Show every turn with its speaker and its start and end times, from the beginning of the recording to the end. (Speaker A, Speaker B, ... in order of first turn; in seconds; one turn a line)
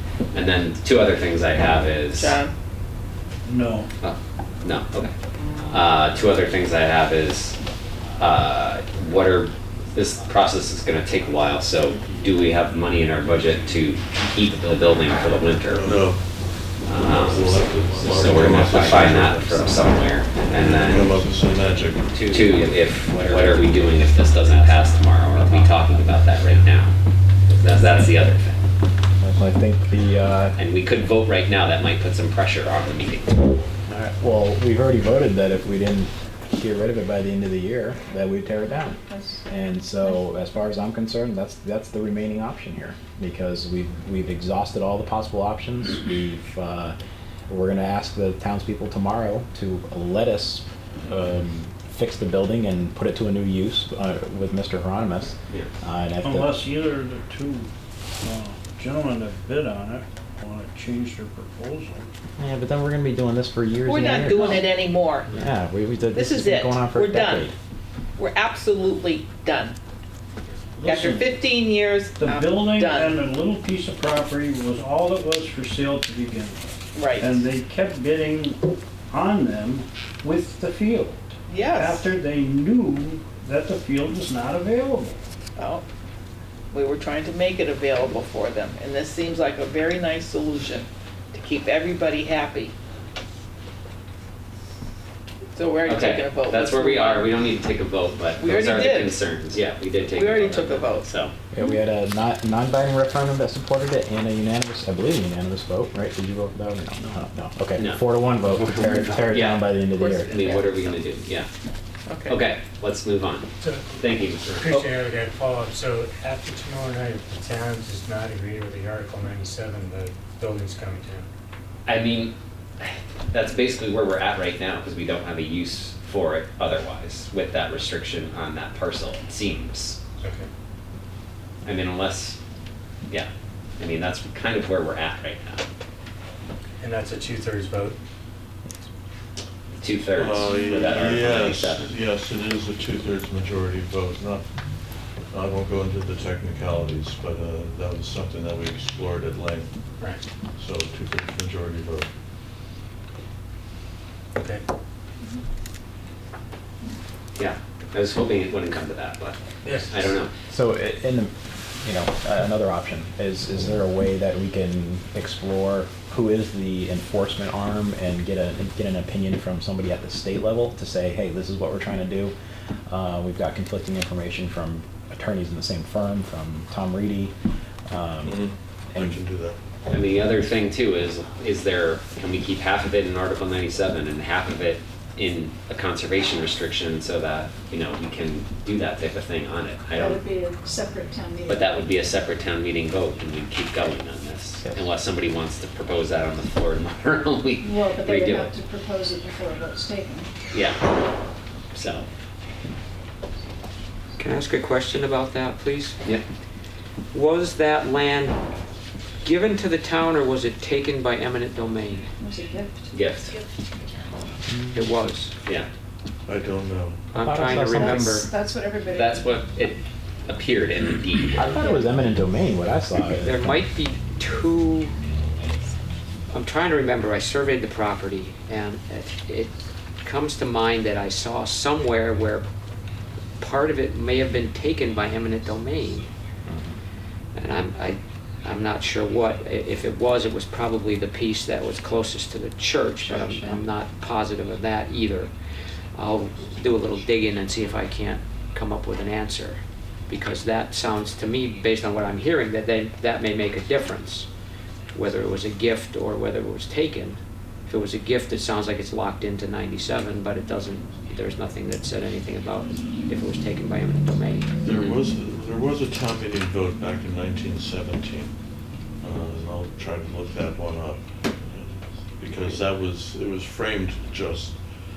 Speaker A: 0.3-2.4
Speaker B: 2.1-2.5
Speaker C: 3.4-3.9
Speaker A: 4.0-5.1
Speaker A: 5.7-7.6
Speaker A: 8.2-15.9
Speaker D: 15.7-16.2
Speaker A: 16.9-21.1
Speaker D: 16.9-22.1
Speaker E: 17.4-19.2
Speaker E: 20.8-21.1
Speaker A: 22.1-26.9
Speaker A: 27.5-28.6
Speaker F: 29.2-30.6
Speaker A: 30.6-33.3
Speaker F: 33.9-47.0
Speaker E: 39.0-39.5
Speaker F: 47.5-56.6
Speaker C: 56.2-57.7
Speaker C: 58.2-62.1
Speaker F: 62.4-64.7
Speaker B: 63.9-65.3
Speaker F: 65.3-67.5
Speaker B: 66.1-67.5
Speaker B: 68.2-69.8
Speaker D: 70.8-71.2
Speaker B: 70.8-73.2
Speaker C: 72.2-85.2
Speaker B: 76.9-77.4
Speaker B: 81.5-82.1
Speaker B: 85.5-85.8
Speaker B: 86.7-92.7
Speaker B: 95.5-97.3
Speaker A: 95.8-101.3
Speaker B: 98.4-99.2
Speaker B: 100.0-101.1
Speaker F: 101.5-110.3
Speaker A: 107.8-109.7
Speaker B: 109.9-111.0
Speaker A: 110.3-111.5
Speaker B: 112.1-112.4
Speaker A: 112.3-115.0
Speaker G: 113.6-121.3
Speaker A: 121.8-130.0
Speaker G: 130.2-130.5
Speaker A: 131.6-132.4
Speaker A: 133.1-135.6
Speaker G: 136.8-138.0
Speaker A: 139.8-141.9
Speaker D: 140.1-144.4
Speaker D: 145.3-149.7
Speaker D: 150.6-152.1
Speaker G: 154.4-154.6
Speaker A: 157.3-160.3
Speaker G: 159.6-160.1
Speaker F: 160.5-172.3
Speaker F: 172.9-177.3
Speaker F: 177.9-179.2
Speaker D: 178.2-179.6
Speaker A: 179.9-190.2
Speaker E: 189.9-191.8
Speaker A: 191.5-198.5
Speaker E: 197.6-200.3
Speaker A: 200.5-200.9
Speaker A: 201.7-202.1
Speaker H: 204.2-206.0
Speaker H: 207.1-208.4
Speaker H: 209.2-212.1
Speaker E: 212.2-212.9
Speaker A: 212.9-213.3
Speaker F: 214.5-214.8
Speaker H: 214.7-215.3
Speaker D: 216.2-217.1
Speaker H: 217.1-218.3
Speaker F: 217.1-218.2
Speaker E: 217.8-219.3
Speaker A: 218.8-221.6
Speaker F: 221.3-223.5
Speaker E: 221.6-221.8
Speaker H: 223.2-224.9
Speaker H: 226.3-232.5
Speaker H: 233.4-236.1
Speaker F: 236.4-236.8
Speaker H: 237.3-245.3
Speaker E: 243.1-243.6
Speaker H: 245.9-254.3
Speaker H: 254.9-264.5
Speaker D: 264.6-268.3
Speaker D: 269.0-274.6